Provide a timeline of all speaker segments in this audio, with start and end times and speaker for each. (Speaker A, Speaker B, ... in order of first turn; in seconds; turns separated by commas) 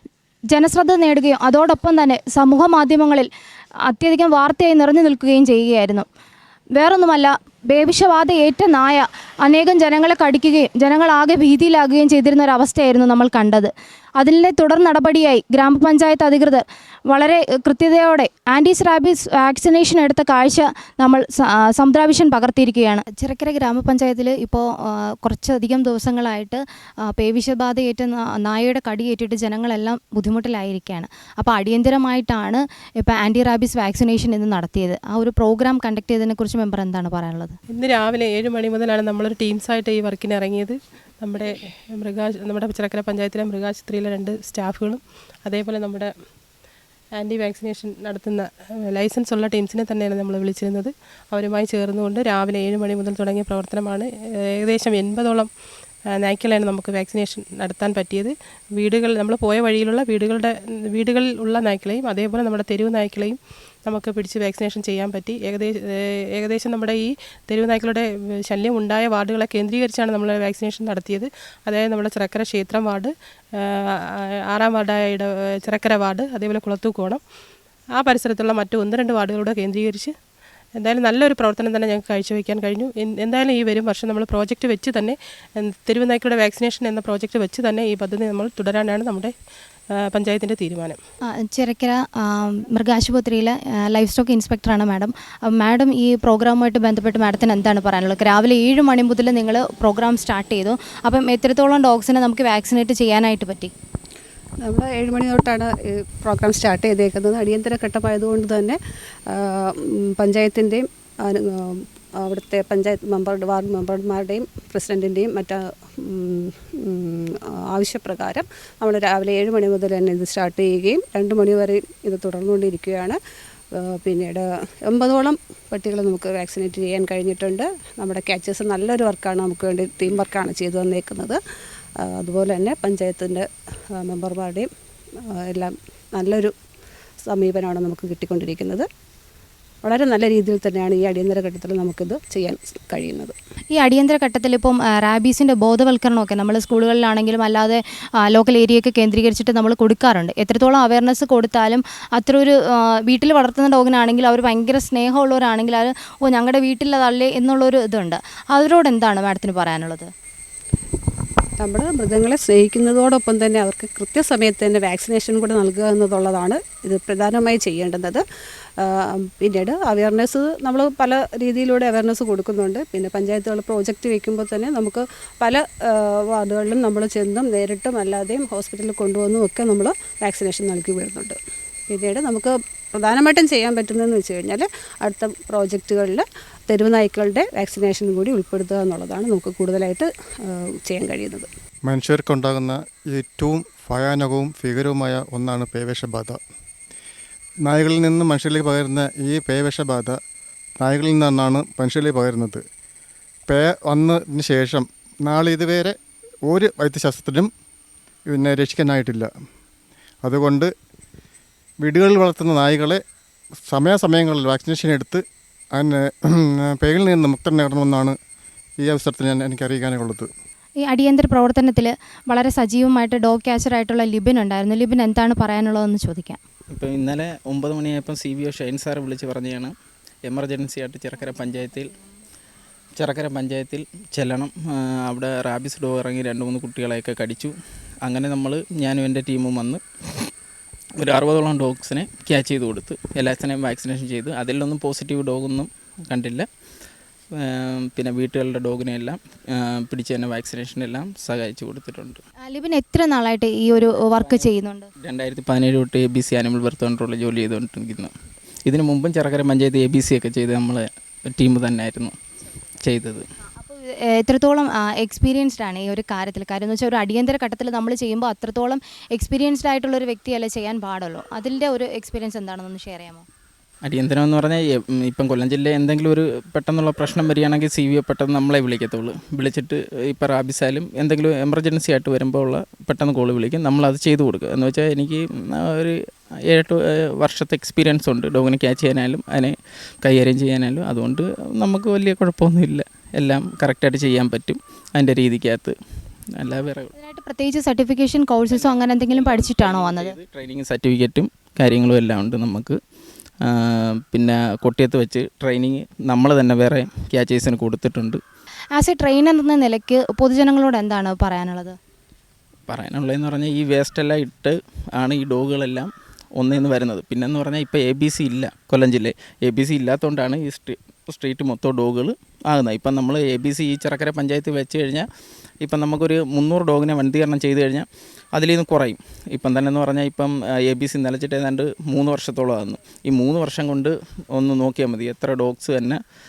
Speaker A: 0.5-3.3, Speaker A: 3.9-6.1, Speaker A: 6.8-37.6, Speaker B: 37.7-46.1, Speaker B: 47.1-55.5, Speaker B: 56.0-77.2, Speaker B: 77.9-80.1, Speaker B: 80.8-89.3, Speaker B: 89.9-91.0, Speaker A: 91.3-103.7, Speaker C: 104.6-108.8, Speaker C: 109.3-123.2, Speaker C: 123.7-131.4, Speaker C: 132.0-134.7, Speaker C: 135.4-136.5, Speaker C: 137.2-138.9, Speaker C: 139.8-143.3, Speaker A: 143.7-160.1, Speaker C: 161.6-168.2, Speaker C: 168.8-181.4, Speaker C: 181.9-191.5, Speaker D: 191.8-196.4, Speaker D: 197.6-200.2, Speaker D: 200.8-202.6, Speaker D: 203.5-205.9, Speaker D: 206.5-207.5, Speaker D: 208.3-209.3, Speaker D: 210.2-210.7, Speaker D: 211.8-213.0, Speaker D: 213.7-215.2, Speaker D: 215.7-218.2, Speaker D: 218.8-220.3, Speaker A: 220.8-226.4, Speaker E: 226.7-229.7, Speaker E: 230.3-231.9, Speaker E: 233.0-237.5, Speaker E: 238.0-240.3, Speaker E: 241.0-246.4, Speaker E: 247.4-252.2, Speaker A: 252.4-254.9, Speaker E: 254.2-254.5, Speaker E: 255.0-258.1, Speaker E: 258.7-262.1, Speaker E: 262.8-263.3, Speaker A: 263.6-273.2, Speaker E: 273.8-285.9, Speaker E: 286.5-295.7, Speaker E: 296.4-296.9, Speaker A: 296.9-300.2, Speaker E: 298.5-302.8, Speaker E: 303.5-308.2, Speaker A: 308.7-311.8, Speaker E: 312.7-325.1, Speaker E: 325.6-336.0